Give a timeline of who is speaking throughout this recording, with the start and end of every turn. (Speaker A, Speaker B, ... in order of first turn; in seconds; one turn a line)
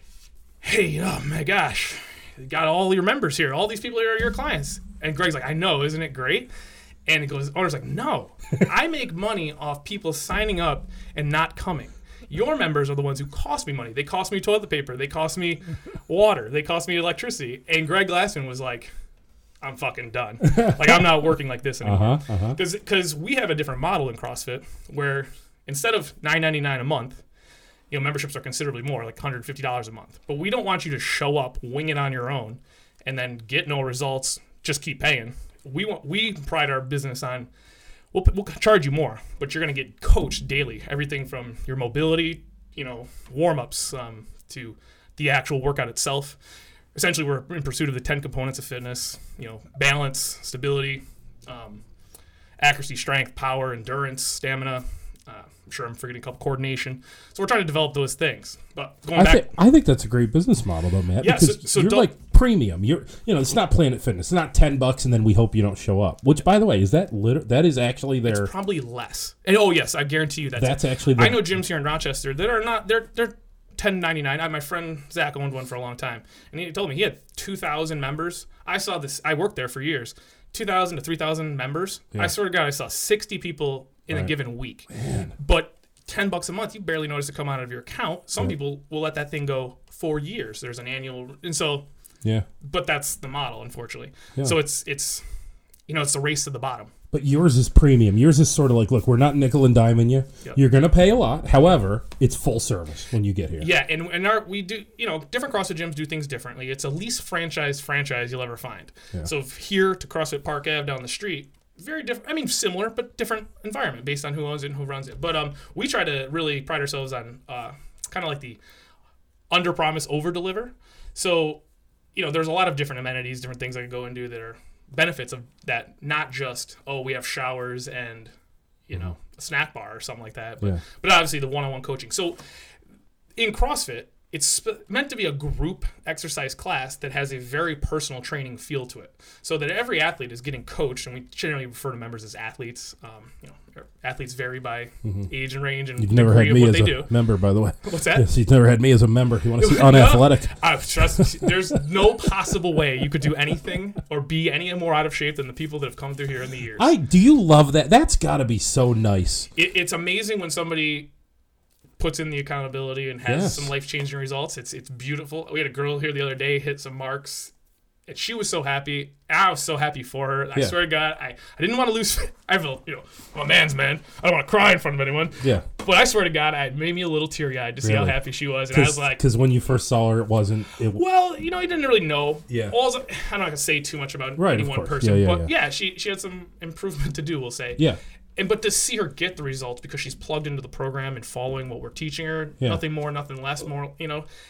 Speaker A: 0.6-6.5
Speaker A: 7.1-18.9
Speaker A: 19.6-27.2
Speaker B: 20.5-21.0
Speaker B: 21.8-22.6
Speaker A: 27.9-37.5
Speaker A: 38.1-46.4
Speaker A: 46.9-51.8
Speaker A: 52.6-59.5
Speaker B: 59.1-68.5
Speaker A: 61.2-62.1
Speaker A: 68.2-91.9
Speaker B: 70.6-71.5
Speaker B: 84.9-85.3
Speaker A: 92.6-95.2
Speaker A: 95.9-96.9
Speaker B: 97.1-103.7
Speaker A: 103.6-118.6
Speaker A: 119.5-121.6
Speaker A: 122.1-128.3
Speaker A: 128.9-132.4
Speaker B: 128.9-129.2
Speaker A: 133.3-147.1
Speaker B: 146.0-150.6
Speaker A: 147.8-148.3
Speaker A: 149.6-156.9
Speaker B: 151.2-151.5
Speaker B: 156.8-159.5
Speaker A: 159.6-161.1
Speaker A: 162.0-167.5
Speaker B: 163.2-163.7
Speaker A: 168.1-179.2
Speaker B: 177.8-181.0
Speaker A: 180.9-187.8
Speaker B: 182.5-182.7
Speaker B: 184.4-185.5
Speaker A: 188.4-194.2